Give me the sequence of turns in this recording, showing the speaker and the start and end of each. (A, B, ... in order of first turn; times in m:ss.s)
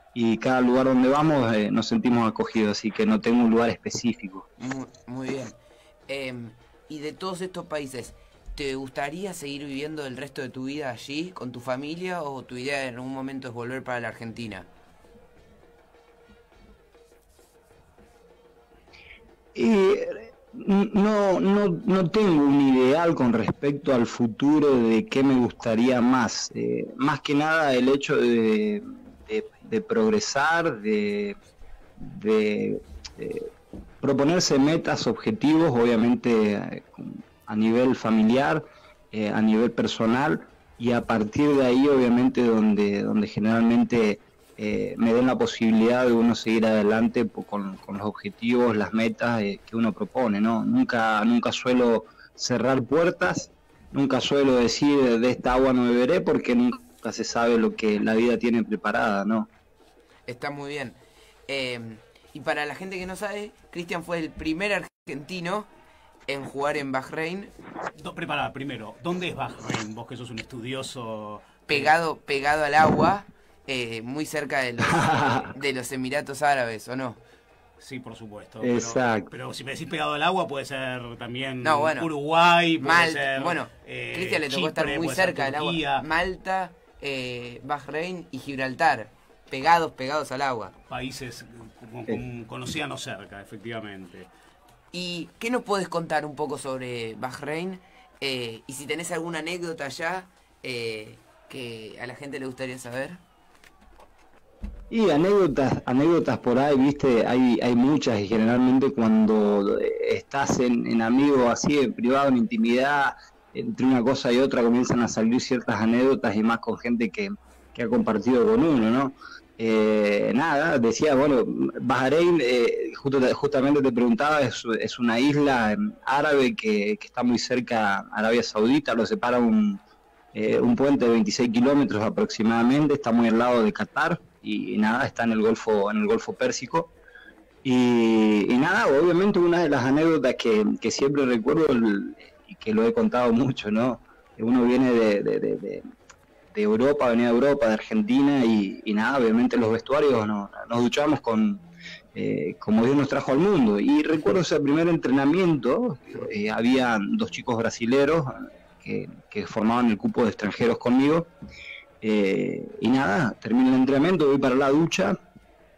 0:00.1-0:04.5 A
0:04.6-0:05.6 B
0:06.1-0:14.7 B
0:19.5-0:31.4 A
0:32.0-0:33.5 A
0:34.0-0:59.5 A
1:00.3-1:01.0 B
1:01.5-1:05.7 B
1:06.3-1:07.5 B
1:08.0-1:11.9 C
1:11.7-1:17.2 B
1:15.0-1:15.5 A
1:17.8-1:26.0 C
1:18.6-1:19.3 A
1:21.6-1:22.1 B
1:22.8-1:30.7 B
1:30.9-1:34.3 C
1:34.9-1:43.2 B
1:44.9-2:09.8 A
2:10.3-2:16.9 A
2:17.6-2:25.8 A
2:26.5-2:31.6 A
2:32.1-2:41.3 A
2:42.0-2:45.2 A